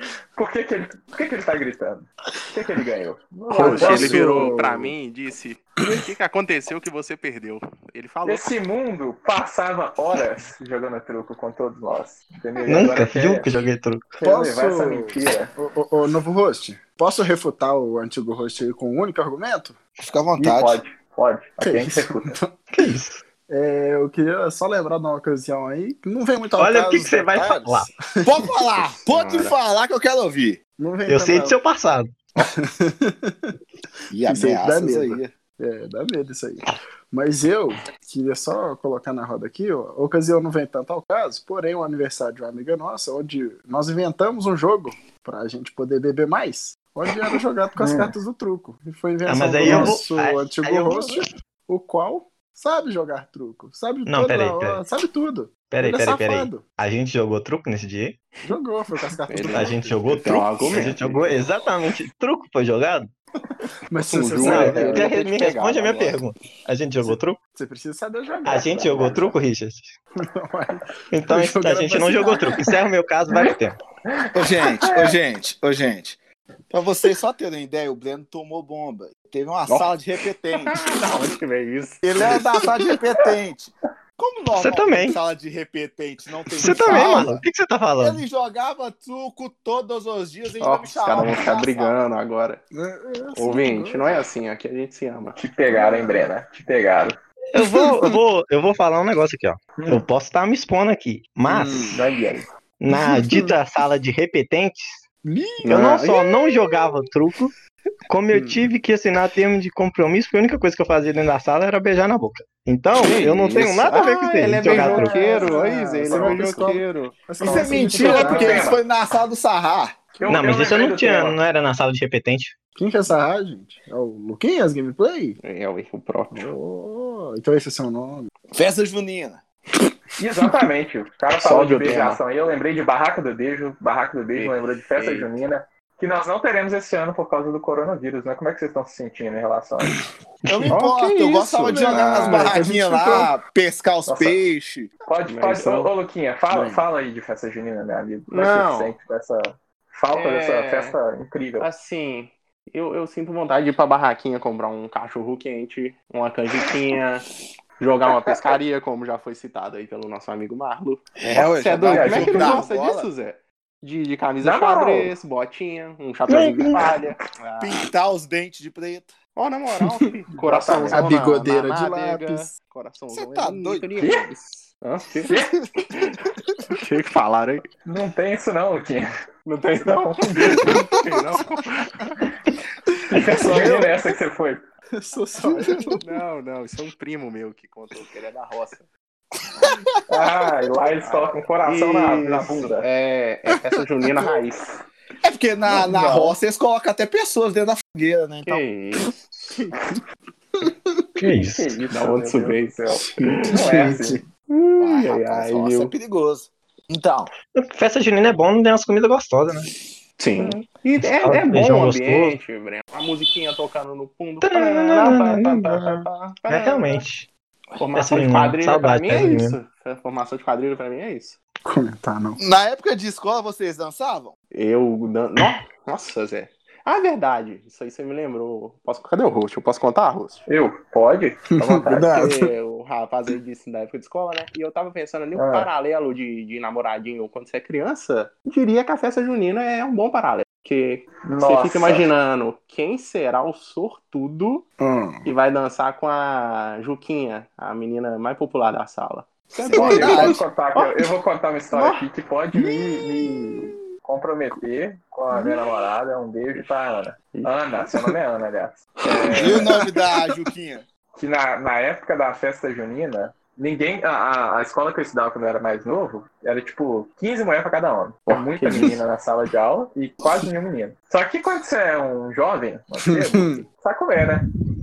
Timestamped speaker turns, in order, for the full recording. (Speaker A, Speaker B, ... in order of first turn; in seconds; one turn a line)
Speaker A: 0.3-4.5
Speaker B: 3.5-4.9
Speaker C: 3.5-8.5
Speaker A: 8.2-13.5
Speaker D: 12.6-14.1
Speaker A: 14.1-15.5
Speaker B: 14.2-19.8
Speaker E: 20.0-20.8
Speaker A: 20.4-22.4
Speaker B: 21.6-22.5
Speaker D: 22.7-23.2
Speaker B: 23.5-28.4
Speaker D: 26.6-27.9
Speaker E: 28.2-30.6
Speaker C: 29.0-29.6
Speaker B: 30.8-31.6
Speaker D: 31.1-32.3
Speaker B: 32.4-33.5
Speaker E: 34.1-35.3
Speaker B: 34.1-56.6
Speaker A: 47.8-48.1
Speaker D: 49.2-51.3
Speaker C: 49.6-50.0
Speaker D: 54.0-54.8
Speaker D: 55.7-58.3
Speaker B: 58.4-59.7
Speaker C: 59.3-61.3
Speaker D: 59.5-63.1
Speaker B: 63.9-65.1
Speaker C: 64.0-66.2
Speaker D: 64.4-67.4
Speaker B: 67.0-69.4
Speaker D: 68.4-69.9
Speaker B: 70.3-72.7
Speaker D: 71.1-73.8
Speaker A: 73.3-75.2
Speaker E: 74.3-76.2
Speaker E: 76.7-80.8
Speaker C: 79.7-79.9
Speaker C: 80.7-82.6
Speaker E: 82.0-87.4
Speaker D: 84.5-85.2
Speaker D: 86.6-88.2
Speaker E: 88.0-92.0
Speaker C: 90.6-92.6
Speaker B: 92.7-94.2
Speaker C: 93.3-95.4
Speaker A: 95.3-97.2
Speaker D: 97.5-102.0
Speaker B: 97.6-98.2
Speaker A: 99.8-100.0
Speaker B: 101.5-102.0
Speaker A: 101.9-102.5
Speaker D: 102.8-105.0
Speaker B: 102.9-103.5
Speaker B: 105.2-105.8
Speaker C: 105.6-106.2
Speaker D: 105.6-107.5
Speaker D: 108.1-115.2
Speaker C: 113.0-117.2
Speaker B: 114.6-118.8
Speaker A: 114.6-116.5
Speaker E: 117.4-120.1
Speaker A: 117.9-118.8
Speaker A: 120.2-121.4
Speaker D: 120.3-122.5
Speaker B: 122.8-125.4
Speaker C: 125.4-126.5
Speaker B: 126.3-128.3
Speaker E: 128.5-129.4
Speaker A: 130.2-140.0
Speaker C: 131.4-132.2
Speaker C: 134.3-135.4
Speaker E: 140.4-144.9
Speaker C: 140.7-142.6
Speaker B: 141.7-143.3
Speaker A: 144.1-144.4
Speaker A: 145.1-151.7
Speaker C: 145.2-145.9
Speaker B: 146.5-146.8
Speaker C: 148.3-148.9
Speaker C: 150.1-150.9
Speaker C: 151.6-157.2
Speaker C: 157.8-167.9
Speaker E: 161.2-163.1
Speaker A: 161.9-162.6
Speaker A: 164.4-165.1
Speaker D: 166.3-167.1
Speaker E: 167.6-169.1
Speaker C: 169.3-175.3
Speaker A: 170.3-171.1
Speaker B: 170.9-172.5
Speaker E: 173.1-174.2
Speaker A: 174.0-174.3
Speaker A: 175.3-175.6
Speaker C: 176.7-177.7
Speaker A: 177.8-179.1
Speaker C: 179.4-182.1
Speaker A: 179.8-180.8
Speaker A: 183.1-184.6
Speaker B: 183.2-183.8
Speaker E: 183.4-183.9
Speaker B: 184.9-186.0
Speaker C: 186.0-188.9
Speaker A: 190.1-192.9
Speaker C: 191.0-194.8
Speaker E: 195.2-198.7
Speaker C: 198.4-199.8
Speaker B: 200.6-201.0
Speaker D: 201.2-201.7
Speaker A: 201.4-204.2
Speaker C: 201.9-203.9
Speaker B: 203.1-204.2
Speaker C: 204.5-205.9
Speaker E: 204.8-207.3
Speaker D: 207.5-209.7
Speaker C: 210.2-217.0
Speaker D: 211.0-212.3
Speaker D: 214.4-217.3
Speaker C: 217.8-221.4
Speaker D: 217.9-219.6
Speaker B: 221.6-222.4
Speaker E: 222.4-224.3
Speaker C: 224.5-230.5
Speaker A: 230.5-232.1
Speaker B: 231.6-232.5
Speaker C: 232.0-244.7
Speaker A: 235.3-235.7
Speaker A: 241.2-242.1
Speaker B: 244.8-245.3
Speaker C: 245.2-251.1
Speaker E: 249.6-250.4
Speaker B: 249.8-250.3
Speaker A: 249.8-259.8
Speaker C: 251.7-252.0
Speaker B: 252.6-253.7
Speaker C: 256.5-256.8
Speaker C: 257.3-257.9
Speaker E: 259.3-260.8
Speaker A: 261.2-274.4
Speaker C: 268.3-269.0
Speaker B: 273.1-273.6